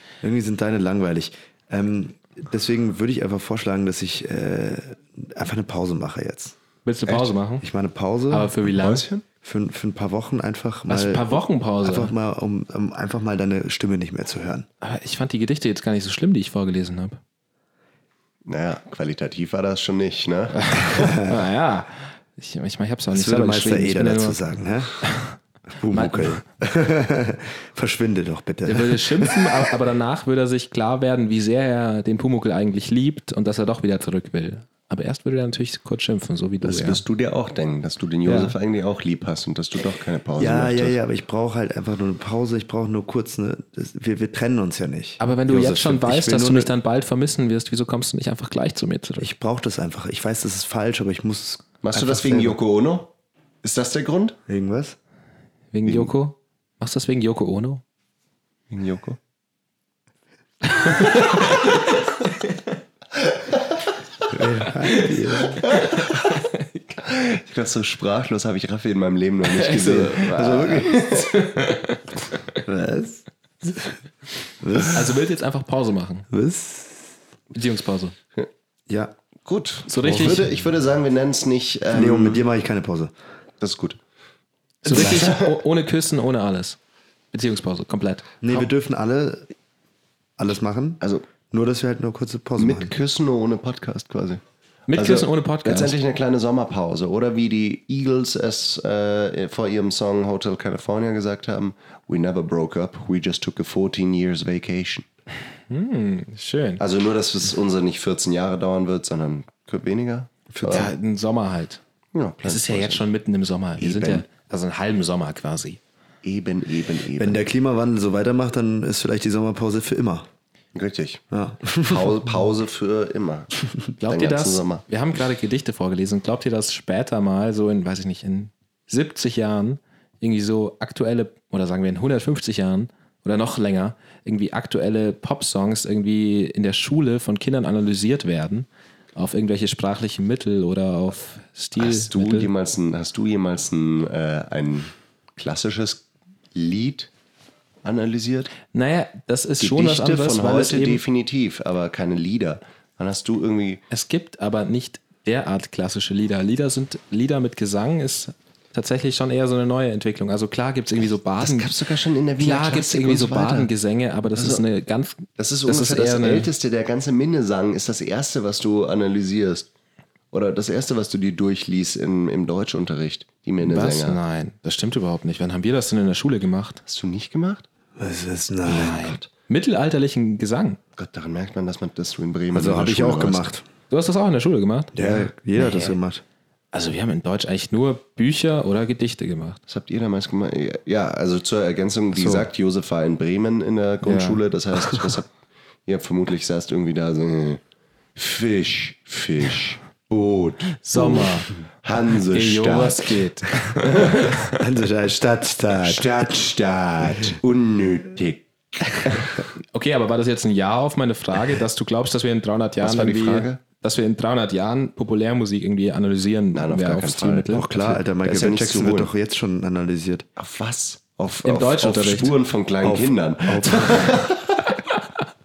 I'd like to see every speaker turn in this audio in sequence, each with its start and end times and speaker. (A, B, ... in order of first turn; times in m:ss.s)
0:00.2-0:06.5 A
0:06.8-0:07.6 B
0:07.1-0:07.3 C
0:07.6-0:08.5 A
0:08.3-0:09.0 B
0:08.7-0:09.2 C
0:09.4-0:14.7 A
0:10.9-0:12.1 B
0:14.8-0:17.2 B
0:18.5-0:21.1 C
0:20.6-0:24.4 B
0:23.1-0:25.0 A
0:25.0-0:25.4 B
0:25.8-0:29.6 A
0:25.9-0:26.4 B
0:28.7-0:37.0 B
0:36.6-0:41.0 C
0:38.2-0:38.5 B
0:40.4-0:46.7 A
0:45.2-0:49.3 B
0:49.2-0:52.6 A
0:51.8-0:53.1 C
0:53.6-0:54.4 C
0:54.5-0:55.0 A
0:55.7-0:57.8 B
0:55.8-0:56.1 C
0:58.7-0:59.2 C
1:00.7-1:01.7 B
1:04.3-1:05.6 A
1:05.7-1:06.6 B
1:07.1-1:11.3 C
1:09.4-1:12.0 B
1:10.2-1:11.0 A
1:12.6-1:13.2 A
1:14.6-1:15.1 A
1:14.9-1:16.3 B
1:16.3-1:17.2 A
1:17.5-1:18.2 B
1:18.9-1:19.2 A
1:19.4-1:22.4 C
1:19.9-1:20.4 B
1:21.9-1:23.1 A
1:23.6-1:24.0 C
1:24.8-1:26.8 B
1:24.9-1:25.6 C
1:27.3-1:28.6 B
1:28.4-1:29.5 A
1:30.4-1:32.9 A
1:31.0-1:31.3 C
1:32.6-1:34.4 C
1:34.9-1:36.0 B
1:34.9-1:45.1 C
1:45.7-1:46.8 B
1:46.8-1:50.9 C
1:50.5-1:50.9 A
1:50.7-1:51.8 B
1:52.1-1:53.1 C
1:52.4-1:55.8 B
1:53.8-1:54.2 C
1:56.2-1:57.4 C
1:57.2-2:00.3 A
2:00.8-2:01.2 C
2:01.3-2:02.2 A
2:01.9-2:04.8 C
2:04.0-2:22.5 B
2:21.8-2:27.1 C
2:27.8-2:28.5 C
2:28.7-2:31.0 B
2:29.6-2:33.8 C
2:33.9-2:41.7 B
2:41.4-2:43.7 C
2:42.4-2:46.5 B
2:44.4-2:44.6 C
2:45.4-2:49.7 C
2:50.3-2:54.2 C
2:53.6-2:56.8 B
2:56.8-2:57.6 C
2:58.0-2:58.9 A
2:58.6-3:00.8 B
2:58.7-2:59.3 C
3:01.0-3:03.5 C
3:02.5-3:03.6 A
3:03.9-3:06.0 B
3:04.9-3:06.2 A
3:06.7-3:09.6 B
3:09.7-3:15.3 C
3:12.2-3:12.4 A
3:14.0-3:14.4 B
3:15.9-3:17.6 C
3:18.2-3:24.1 C
3:20.1-3:20.4 A
3:20.9-3:21.5 B
3:22.2-3:24.6 B
3:24.5-3:26.3 A
3:25.8-3:29.4 C
3:29.7-3:37.9 B
3:32.8-3:33.6 C
3:36.5-3:39.1 C
3:37.5-3:40.3 A
3:40.4-3:44.6 C
3:41.4-3:42.4 B
3:42.8-3:44.1 A